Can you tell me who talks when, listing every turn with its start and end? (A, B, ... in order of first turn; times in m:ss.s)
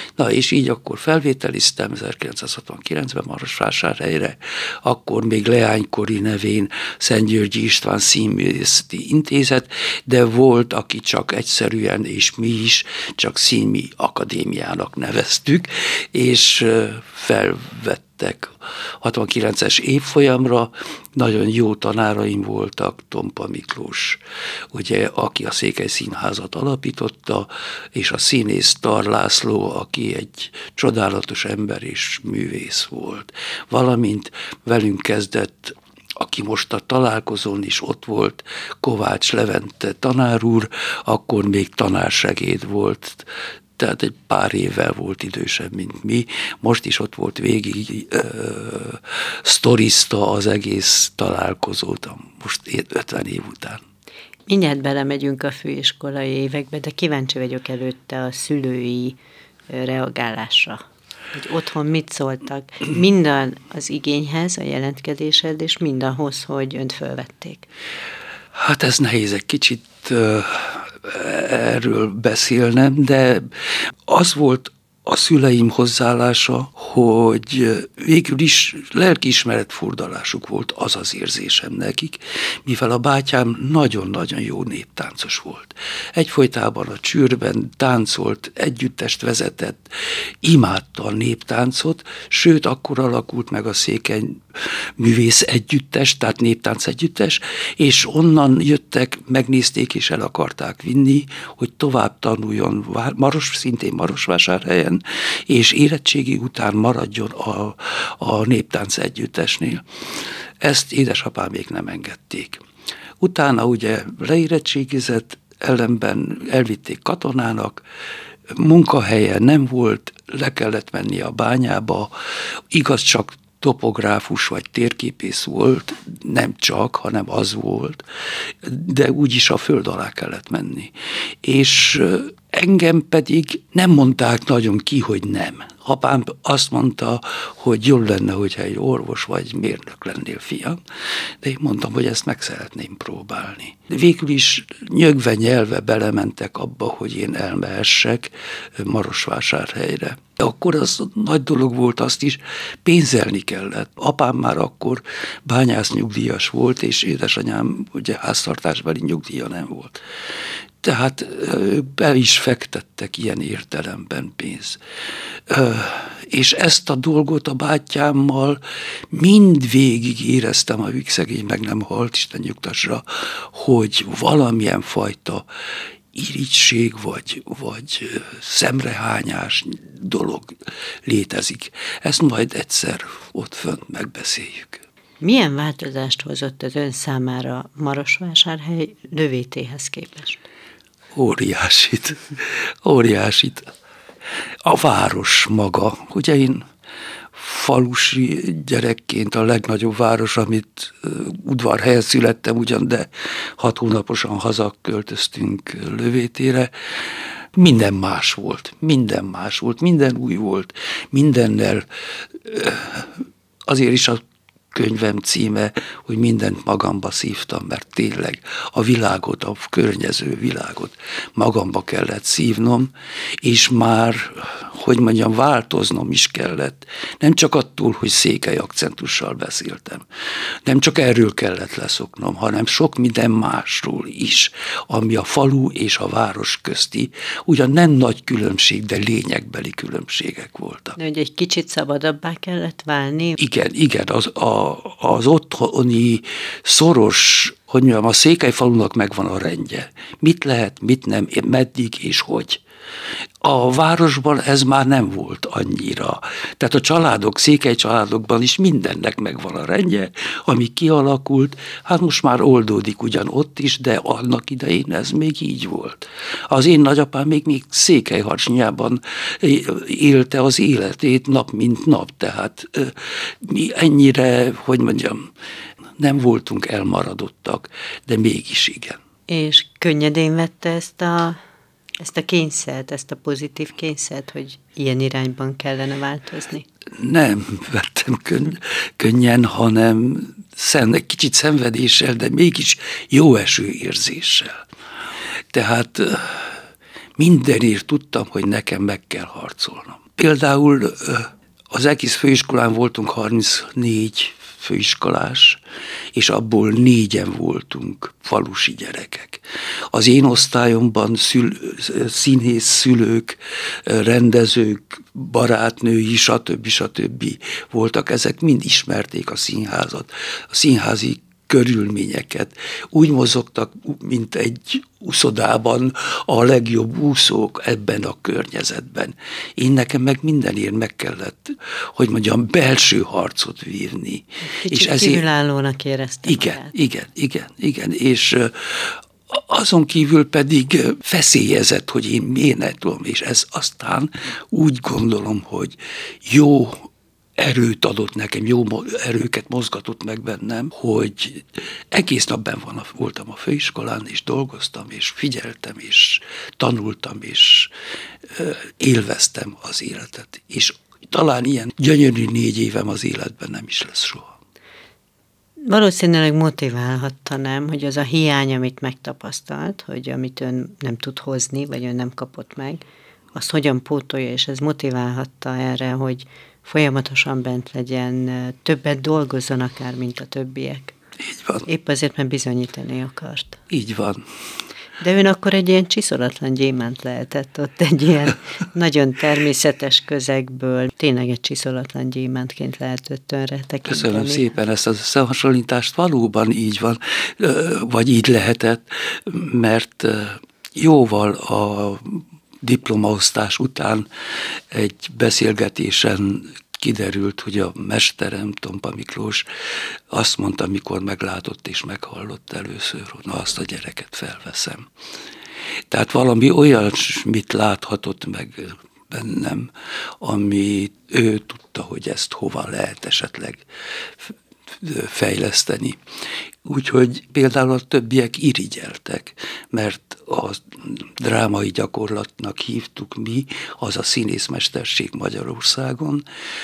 0:00.2-0:24.2 A
0:24.7-0:53.8 A
0:54.5-0:59.2 B
0:59.7-1:00.8 B
1:01.3-1:07.7 B
1:08.5-1:52.6 A
1:53.2-1:57.8 A
1:58.5-2:02.1 A
2:02.7-2:20.8 A
2:21.4-2:40.0 A
2:40.8-2:44.8 A
2:45.5-2:55.5 A
2:56.1-3:04.8 A
3:05.2-3:10.4 B
3:11.1-3:13.7 A
3:14.6-3:16.6 A
3:17.3-3:50.0 A
3:50.6-4:01.0 A
4:01.0-4:03.4 B
4:03.4-4:12.6 A
4:13.4-4:35.3 A
4:36.0-4:39.0 A
4:39.3-4:41.4 B
4:42.0-4:46.7 B
4:47.0-4:54.6 A
4:55.5-4:56.6 A
4:57.2-5:05.6 A
5:06.1-5:35.2 A
5:34.5-5:36.7 B
5:36.3-5:57.7 A
5:58.2-6:04.4 A
6:05.7-6:12.8 B
6:13.4-6:21.0 B
6:21.3-6:21.6 A
6:21.6-6:23.6 B
6:23.7-6:24.2 A
6:25.0-6:34.5 B
6:33.8-6:44.1 A
6:44.7-6:49.5 A
6:50.1-6:54.9 A
6:55.9-7:06.0 A
7:06.6-7:16.2 A